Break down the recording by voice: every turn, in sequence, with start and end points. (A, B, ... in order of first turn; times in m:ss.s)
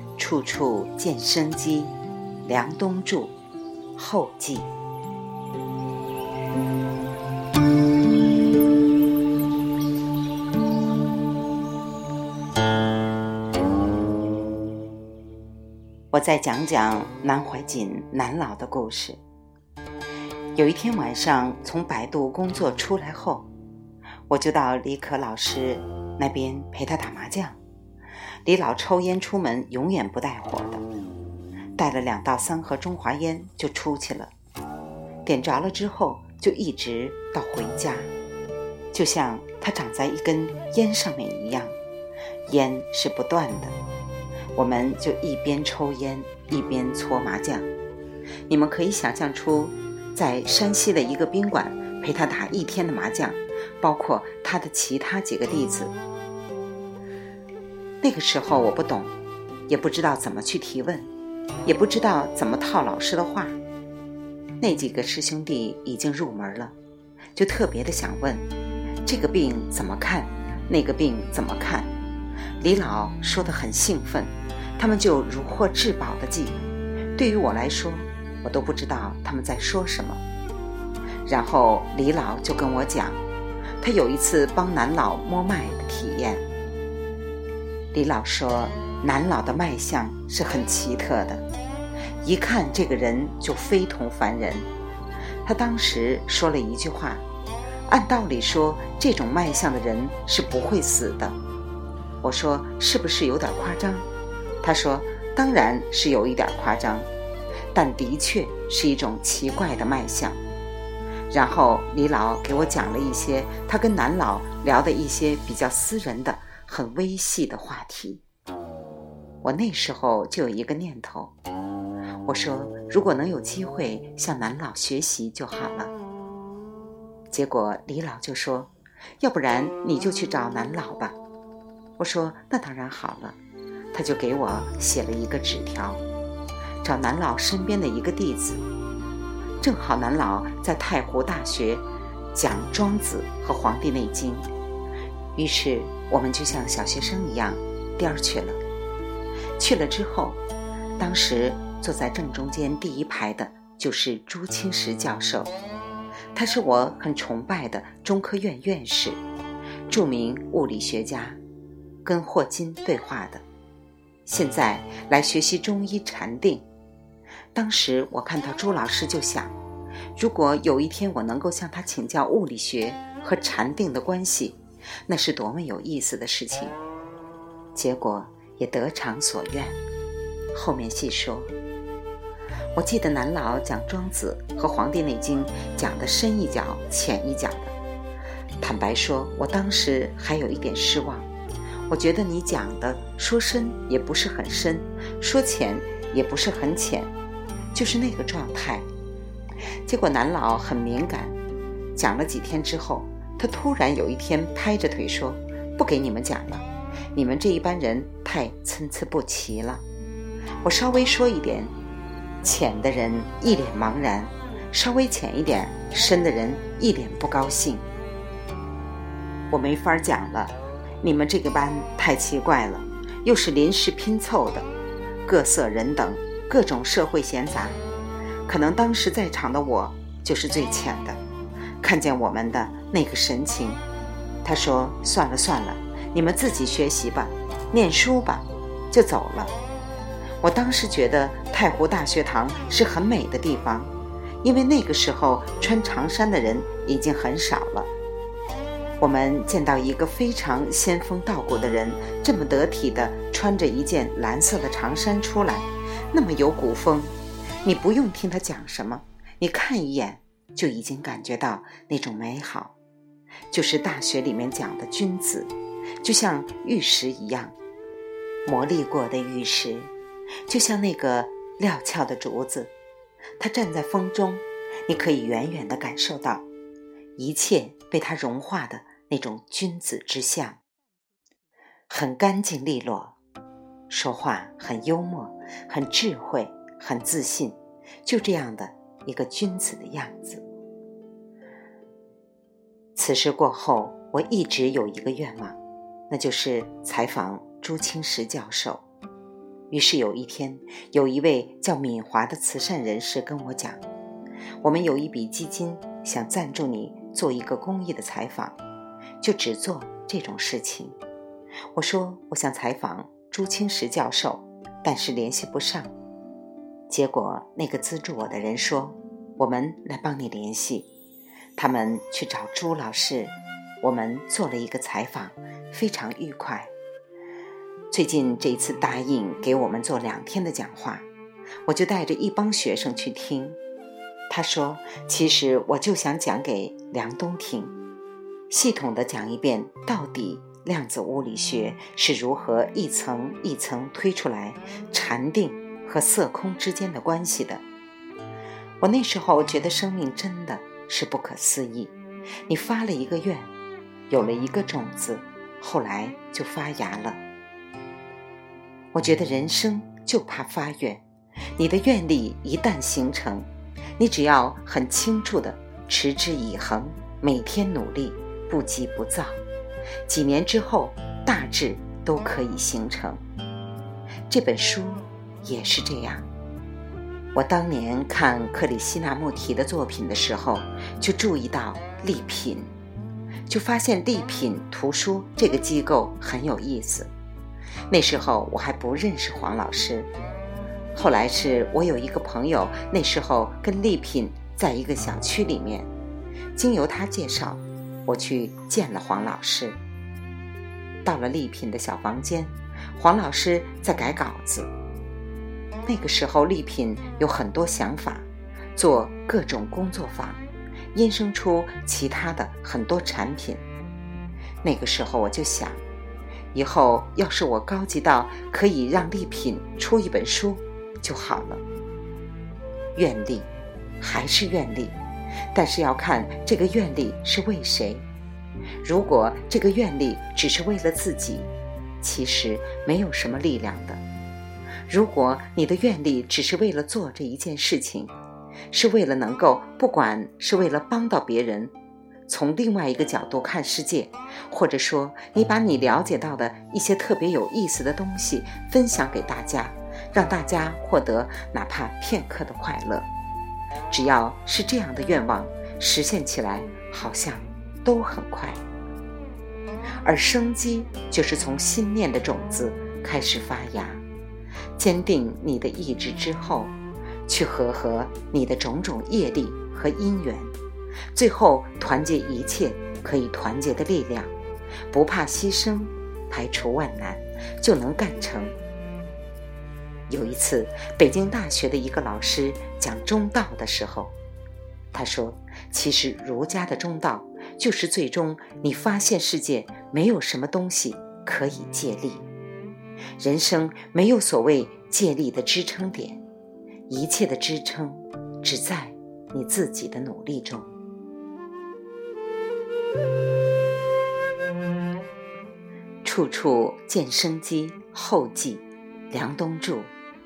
0:00.2-0:03.4 A
0:04.0-0:04.7 A
0:16.1-0:19.2 A
0:20.6-0:23.5 A
0:24.3-0:27.6 A
0:28.4-0:30.8 A
0:31.8-0:34.3 A
0:35.2-0:38.1 A
0:38.9-0:41.8 A
0:42.5-0:43.8 A
0:44.6-0:47.7 A
0:48.5-0:56.0 A
0:58.0-0:59.1 A
0:59.7-1:01.1 A
1:01.6-1:03.6 A
1:04.6-1:06.8 A
1:07.4-1:08.5 A
1:09.0-1:11.9 A
1:12.6-1:16.6 A
1:17.2-1:20.2 A
1:21.2-1:23.2 A
1:23.8-1:26.4 A
1:27.9-1:31.4 A
1:32.2-1:34.7 A
1:35.4-1:37.2 A
1:37.9-1:41.4 A
1:42.2-1:44.1 A
1:44.6-1:47.1 A
1:47.7-1:50.4 A
1:51.3-1:58.2 A
1:59.4-2:01.3 A
2:02.2-2:05.9 A
2:07.3-2:11.2 A
2:12.0-2:13.4 A
2:13.9-2:16.0 A
2:16.8-2:18.6 A
2:19.6-2:24.5 A
2:25.4-2:28.6 A
2:29.6-2:30.4 A
2:31.0-2:35.5 A
2:36.3-2:39.2 A
2:39.9-2:41.4 A
2:42.0-2:43.4 A
2:44.3-2:46.7 A
2:47.5-2:49.6 A
2:50.2-2:56.8 A
2:57.8-2:59.8 A
3:00.5-3:01.5 A
3:02.8-3:07.8 A
3:08.6-3:11.3 A
3:11.9-3:17.1 A
3:17.7-3:18.9 A
3:19.9-3:21.4 A
3:22.0-3:29.8 A
3:30.6-3:31.8 A
3:32.4-3:37.9 A
3:39.5-3:44.7 A
3:45.3-3:47.8 A
3:48.5-3:51.2 A
3:51.8-3:53.8 A
3:54.4-3:59.5 A
4:00.4-4:03.9 A
4:04.4-4:07.9 A
4:09.0-4:22.8 A
4:23.5-4:27.6 A
4:28.5-4:29.9 A
4:30.5-4:32.7 A
4:33.4-4:36.5 A
4:37.2-4:40.6 A
4:41.9-4:43.2 A
4:43.9-4:50.4 A
4:53.0-4:55.6 A
4:56.1-4:58.8 A
4:59.7-5:03.8 A
5:04.6-5:08.6 A
5:09.2-5:11.0 A
5:11.7-5:15.9 A
5:16.9-5:20.9 A
5:21.6-5:26.7 A
5:27.9-5:31.1 A
5:31.7-5:33.6 A
5:34.3-5:37.7 A
5:38.5-5:47.6 A
5:48.8-5:53.5 A
5:54.1-5:57.2 A
5:58.9-6:01.0 A
6:01.6-6:09.4 A
6:10.1-6:13.2 A
6:14.3-6:16.3 A
6:17.3-6:22.7 A
6:23.5-6:27.1 A
6:27.9-6:30.1 A
6:30.9-6:35.9 A
6:36.6-6:39.8 A
6:41.0-6:44.7 A
6:45.9-6:50.4 A
6:50.9-6:53.6 A
6:54.6-6:55.8 A
6:56.5-7:01.6 A
7:03.0-7:05.0 A
7:05.5-7:08.1 A
7:08.8-7:11.5 A
7:12.0-7:14.0 A
7:14.9-7:18.1 A
7:18.7-7:21.7 A
7:22.3-7:33.1 A
7:33.9-7:38.6 A
7:40.0-7:44.0 A
7:44.8-7:46.7 A
7:47.3-7:50.6 A
7:51.1-7:54.3 A
7:54.9-7:58.6 A
8:00.1-8:04.1 A
8:04.9-8:12.3 A
8:13.2-8:16.2 A
8:16.9-8:20.7 A
8:26.0-8:29.9 A